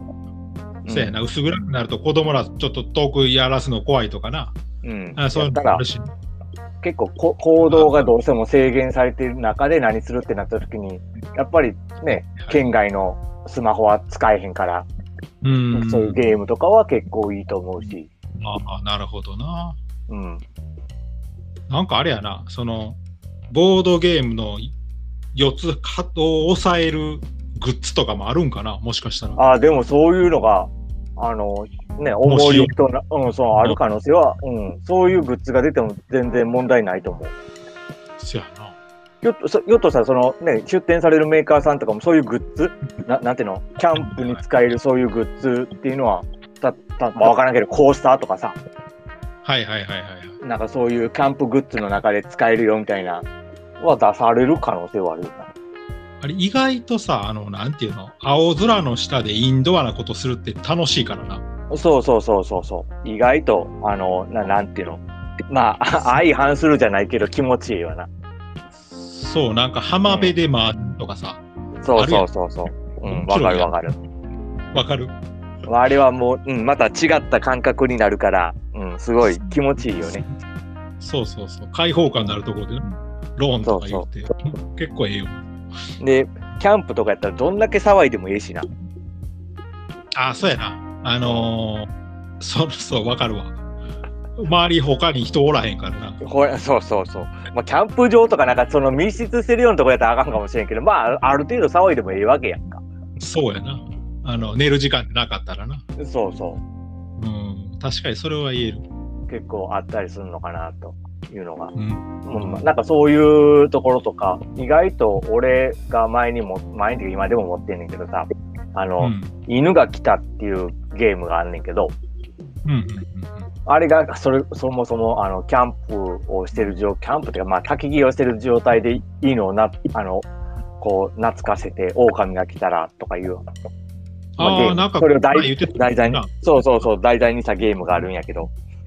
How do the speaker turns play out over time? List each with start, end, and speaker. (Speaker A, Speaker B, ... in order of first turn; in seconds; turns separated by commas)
Speaker A: 0.8-1.2, Speaker B: 0.9-4.5, Speaker A: 4.8-5.8, Speaker B: 5.2-6.1, Speaker A: 6.8-14.9, Speaker B: 7.6-8.1, Speaker B: 15.4-16.2, Speaker A: 15.7-18.1, Speaker B: 18.4-19.8, Speaker A: 20.1-20.4, Speaker B: 21.7-23.0, Speaker B: 23.5-24.7, Speaker B: 25.4-29.4, Speaker A: 29.4-37.3, Speaker B: 32.2-32.8, Speaker B: 38.2-38.8, Speaker A: 39.2-48.6, Speaker B: 44.0-44.4, Speaker B: 49.4-50.4, Speaker A: 50.4-53.3, Speaker A: 53.8-55.5, Speaker B: 56.2-61.4, Speaker A: 61.7-68.1, Speaker B: 68.9-71.4, Speaker A: 70.1-70.3, Speaker A: 71.8-74.0, Speaker B: 72.0-72.3, Speaker B: 73.0-73.8, Speaker B: 74.7-75.2, Speaker A: 75.7-80.2, Speaker B: 79.3-80.3, Speaker B: 81.0-85.5, Speaker A: 83.6-84.1, Speaker A: 86.0-88.7, Speaker B: 90.2-91.9, Speaker A: 91.2-91.5, Speaker B: 92.4-93.6, Speaker B: 94.4-96.2, Speaker A: 96.2-102.8, Speaker B: 103.2-105.8, Speaker A: 106.0-106.6, Speaker B: 107.2-108.8, Speaker A: 109.3-111.7, Speaker B: 111.8-112.7, Speaker A: 112.2-121.9, Speaker B: 119.0-119.3, Speaker B: 122.7-123.5, Speaker A: 123.7-130.3, Speaker A: 130.8-133.4, Speaker B: 134.4-136.3, Speaker A: 134.4-138.5